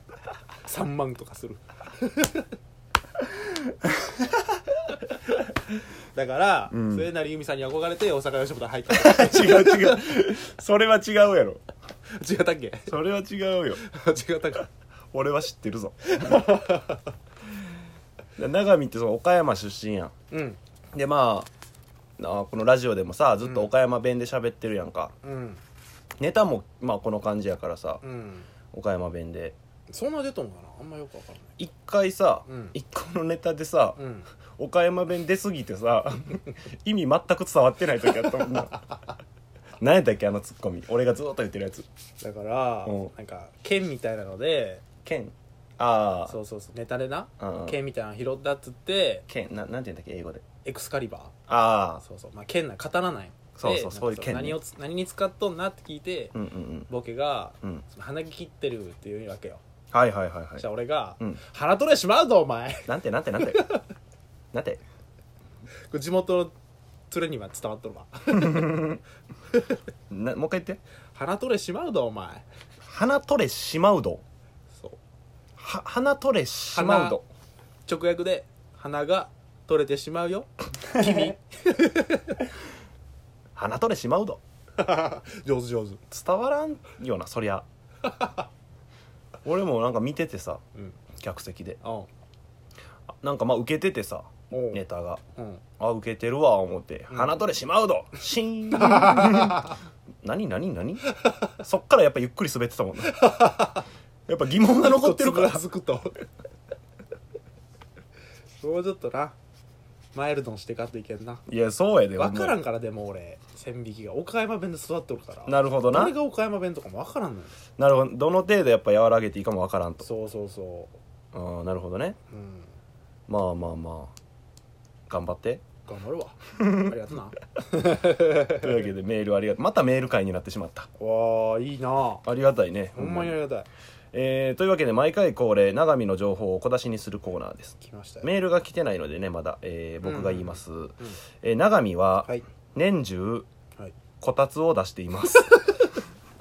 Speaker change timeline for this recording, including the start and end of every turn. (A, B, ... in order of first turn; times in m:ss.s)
0:00.6-0:02.5 A
0:05.7-0:10.3 A
0:06.7-0:07.1 B
0:08.9-0:11.6 B
0:12.1-0:12.9 A
0:12.9-0:13.8 B
0:13.8-0:14.7 A
0:15.1-0:16.4 B
0:16.1-0:17.1 A
0:18.4-0:20.1 B
0:20.3-0:20.6 A
0:20.9-0:21.5 B
0:22.2-0:25.1 B
0:23.4-0:23.7 A
0:25.2-0:25.6 A
0:26.2-0:28.0 B
0:28.0-0:28.5 A
0:28.6-0:29.6 B
0:29.9-0:31.6 A
0:31.6-0:34.0 B
0:32.5-0:32.7 A
0:34.0-0:34.3 A
0:34.6-0:38.9 B
0:39.8-0:41.9 B
0:42.2-0:44.9 A
0:42.8-0:43.1 B
0:44.9-0:46.4 B
0:46.3-0:49.2 A
0:47.4-0:47.8 B
0:49.3-0:50.5 B
0:50.6-0:51.4 A
0:51.5-0:52.0 B
0:52.0-0:56.3 A
0:53.6-0:54.6 B
0:56.4-0:56.9 B
0:56.9-0:59.6 A
0:59.9-1:00.7 B
1:00.6-1:03.8 A
1:02.9-1:03.7 B
1:04.5-1:04.8 B
1:05.9-1:06.5 A
1:07.1-1:09.0 A
1:08.4-1:09.0 B
1:09.5-1:09.8 A
1:10.1-1:10.8 B
1:11.1-1:12.5 A
1:12.8-1:14.2 B
1:15.6-1:17.3 B
1:16.7-1:17.2 A
1:17.9-1:22.5 A
1:21.0-1:21.3 B
1:23.6-1:24.4 B
1:24.8-1:26.0 A
1:26.1-1:27.7 B
1:28.0-1:28.5 A
1:29.4-1:31.8 B
1:31.8-1:32.1 A
1:33.2-1:35.2 B
1:34.5-1:34.8 A
1:35.4-1:35.6 A
1:35.7-1:43.3 B
1:37.1-1:37.4 A
1:38.8-1:39.7 A
1:43.0-1:43.9 A
1:44.3-1:45.6 B
1:44.6-1:46.2 A
1:48.6-1:49.4 A
1:50.1-1:51.4 A
1:51.5-1:52.6 B
1:52.2-1:57.6 A
1:55.5-1:56.2 B
1:57.7-2:00.1 B
2:00.0-2:01.0 A
2:01.3-2:02.2 B
2:02.3-2:02.7 A
2:03.3-2:04.2 B
2:05.1-2:05.7 B
2:05.8-2:08.9 A
2:08.5-2:10.9 B
2:11.0-2:12.2 A
2:12.2-2:13.4 B
2:12.9-2:13.7 A
2:14.1-2:23.5 B
2:17.8-2:18.3 A
2:20.0-2:21.2 A
2:24.1-2:25.6 B
2:25.2-2:26.0 A